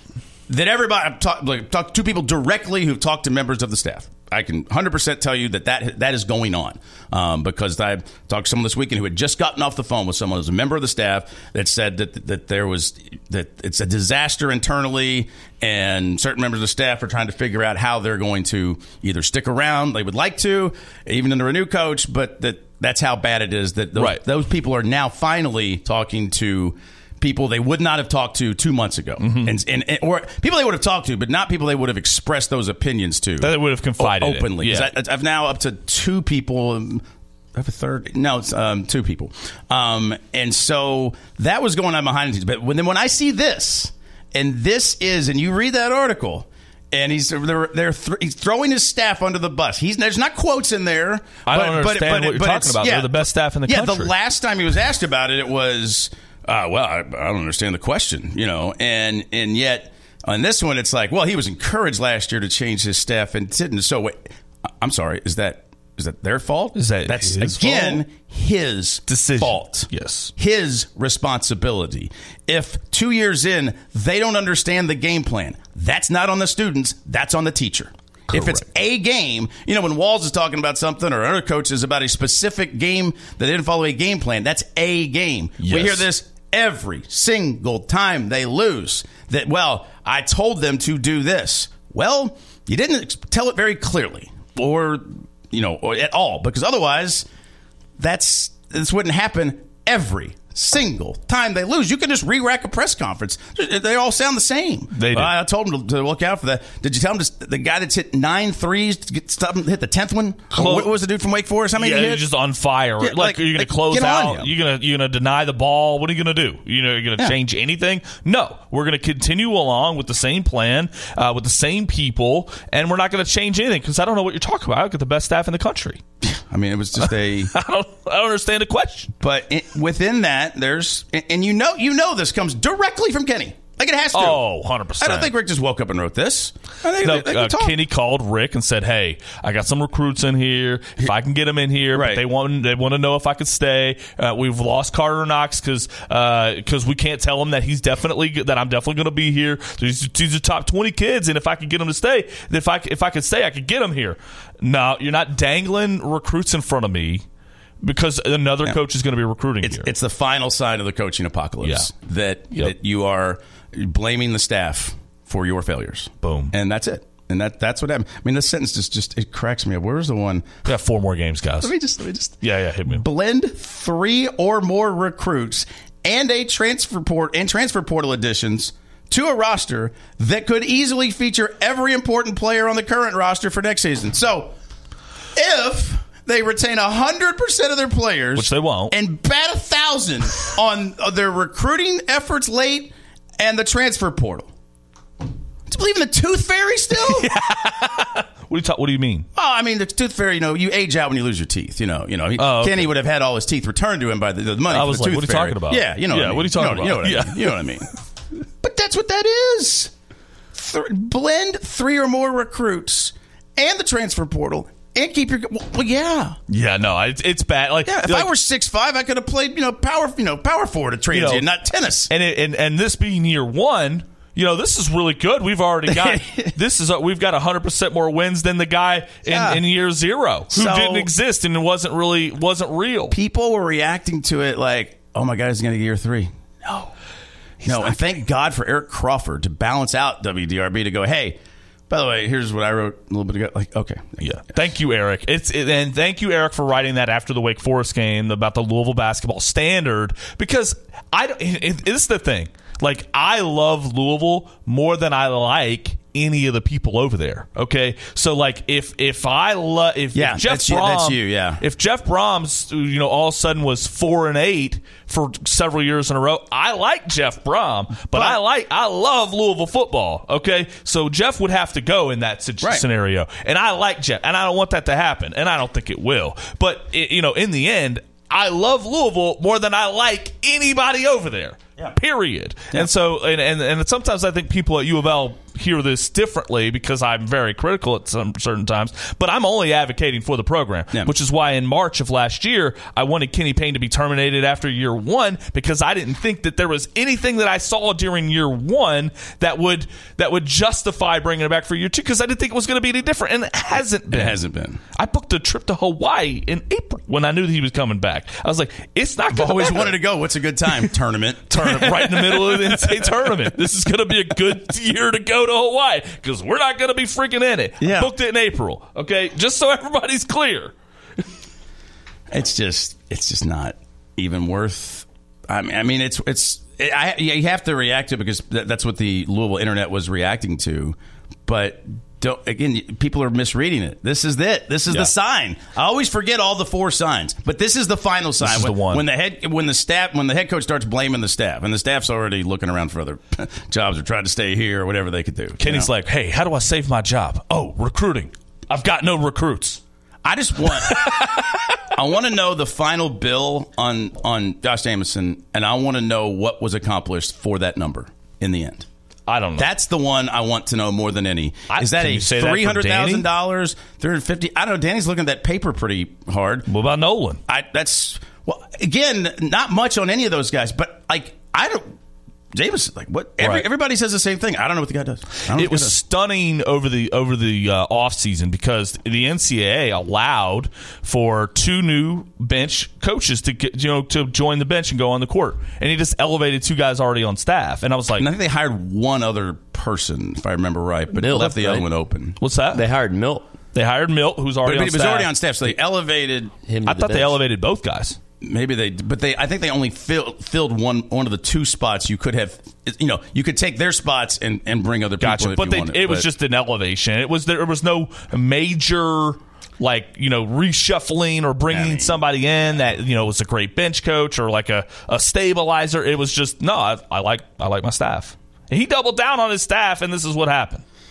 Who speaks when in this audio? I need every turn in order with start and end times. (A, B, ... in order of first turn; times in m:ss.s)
0:00.5-1:37.2 A
0:24.0-0:24.2 B
0:29.2-0:29.6 B
0:33.4-0:34.9 B
0:51.4-0:54.1 B
1:06.8-1:08.0 B
1:09.1-1:10.3 B
1:18.3-1:18.6 B
1:25.6-1:26.0 B
1:38.0-1:52.2 A
1:44.9-1:45.3 B
1:50.5-1:50.9 B
1:51.7-2:06.0 B
1:53.0-1:54.5 A
2:06.2-2:07.5 A
2:07.5-2:09.1 B
2:09.2-2:14.4 A
2:14.1-2:15.3 B
2:15.0-2:17.8 A
2:17.0-2:37.2 B
2:21.9-2:22.2 A
2:37.8-2:39.9 B
2:39.6-2:50.7 A
2:41.6-2:41.9 B
2:46.2-2:46.5 B
2:50.6-2:51.7 B
2:51.6-3:04.5 A
2:52.4-2:53.0 B
3:05.3-3:14.5 A
3:08.3-3:08.9 B
3:15.7-3:17.3 A
3:17.0-3:19.3 B
3:19.3-3:27.9 A
3:22.4-3:22.9 B
3:24.7-3:27.6 B
3:28.6-3:29.9 A
3:30.5-3:36.4 A
3:36.5-3:38.3 B
3:37.8-3:42.1 A
3:41.1-3:41.4 B
3:42.1-3:53.1 B
3:45.9-3:46.5 A
3:49.3-3:49.6 A
3:50.5-3:51.1 A
3:53.1-3:56.9 A
3:57.6-4:01.4 A
4:01.9-4:04.4 A
4:04.2-5:04.4 B
4:20.1-4:21.6 A
4:28.1-4:28.4 A
5:04.1-5:04.8 A
5:05.0-5:10.0 B
5:09.3-5:13.2 A
5:11.5-5:20.7 B
5:17.8-5:18.1 A
5:22.3-5:45.9 A
5:38.4-5:39.0 B
5:45.6-5:49.8 B
5:50.2-5:51.1 A
5:50.9-5:51.4 B
5:51.9-5:58.9 A
5:59.3-5:59.7 B
5:59.6-6:06.7 A
6:01.7-6:03.2 B
6:06.7-6:07.4 B
6:07.5-6:11.9 A
6:12.5-6:16.0 A
6:13.4-6:13.7 B
6:15.5-6:28.3 B
6:28.2-6:32.4 A
6:31.2-6:31.9 C
6:32.4-6:32.8 B
6:32.7-6:33.5 C
6:33.7-6:35.3 B
6:34.6-6:36.5 A
6:36.6-6:37.4 C
6:36.8-6:38.2 B
6:38.4-6:46.3 A
6:45.2-7:00.8 B
6:51.7-6:52.2 A